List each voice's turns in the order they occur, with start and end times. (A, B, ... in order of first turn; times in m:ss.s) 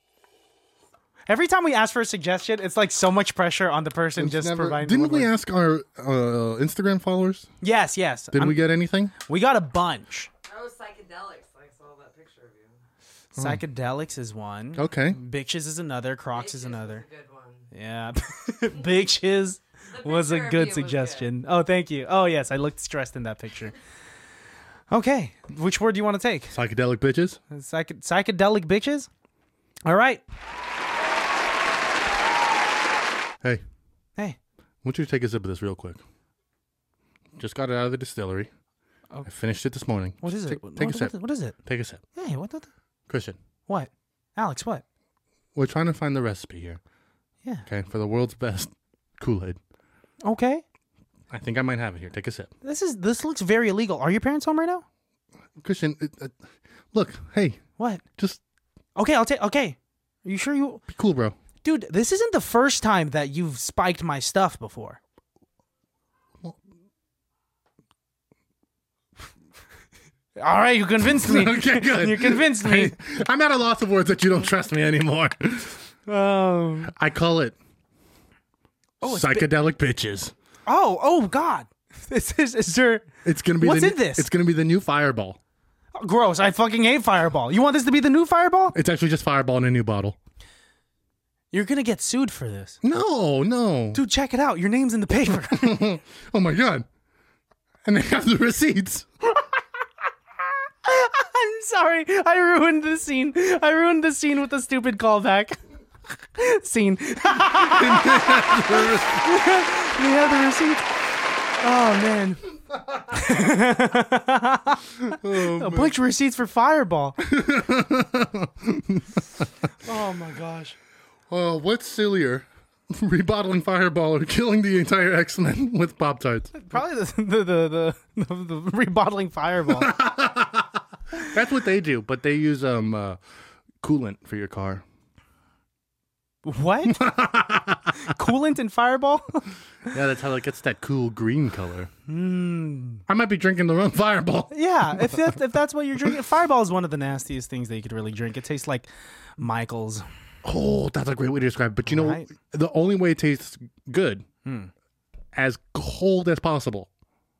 0:01.3-0:05.3 A
0:04.2-0:07.5 B
0:07.6-0:08.6 A
0:08.3-0:09.1 B
0:09.1-0:10.3 A
0:10.4-0:12.8 C
0:13.3-0:17.0 A
0:13.4-0:13.6 B
0:14.8-0:15.2 B
0:16.3-0:17.7 C
0:17.7-0:23.7 A
0:19.9-0:21.3 C
0:24.9-0:26.5 A
0:26.5-0:27.4 B
0:27.5-0:29.1 A
0:29.8-0:30.2 A
0:34.8-0:36.0 B
0:37.4-0:38.5 B
0:39.2-0:42.0 B
0:40.2-0:41.6 A
0:42.1-0:42.7 A
0:43.1-0:43.4 B
0:43.7-0:44.8 A
0:45.5-0:46.8 B
0:47.7-0:49.6 B
0:50.2-0:50.6 A
0:51.3-0:52.5 B
0:52.6-0:54.8 A
0:55.6-0:56.4 B
0:56.9-0:57.6 B
0:57.8-0:58.0 A
0:59.0-1:00.8 A
1:00.9-1:01.4 B
1:01.6-1:05.0 A
1:10.4-1:13.0 A
1:11.0-1:15.8 B
1:16.1-1:16.9 A
1:16.9-1:17.6 B
1:19.0-1:19.5 A
1:19.0-1:20.3 B
1:20.7-1:24.3 A
1:23.2-1:25.4 B
1:26.0-1:28.7 A
1:28.7-1:30.2 B
1:31.5-1:32.8 A
1:32.8-1:34.0 B
1:33.9-1:35.8 A
1:35.4-1:36.8 B
1:37.8-1:39.1 B
1:40.8-1:45.6 A
1:46.3-1:50.8 A
1:47.6-1:49.2 B
1:51.6-1:52.4 A
1:53.1-1:57.2 A
1:55.1-1:55.9 B
1:57.2-1:59.4 B
1:59.8-2:00.8 A
2:01.3-2:06.6 B
2:06.5-2:09.9 A
2:09.8-2:13.2 B
2:13.8-2:14.8 B
2:16.4-2:17.1 A
2:16.9-2:18.1 B
2:18.0-2:19.5 A
2:19.9-2:21.9 B
2:22.1-2:23.0 A
2:23.1-2:25.3 B
2:24.5-2:28.9 A
2:29.4-2:30.0 A
2:30.4-2:34.2 B
2:31.9-2:32.3 A
2:34.4-2:34.7 A
2:35.3-2:36.9 B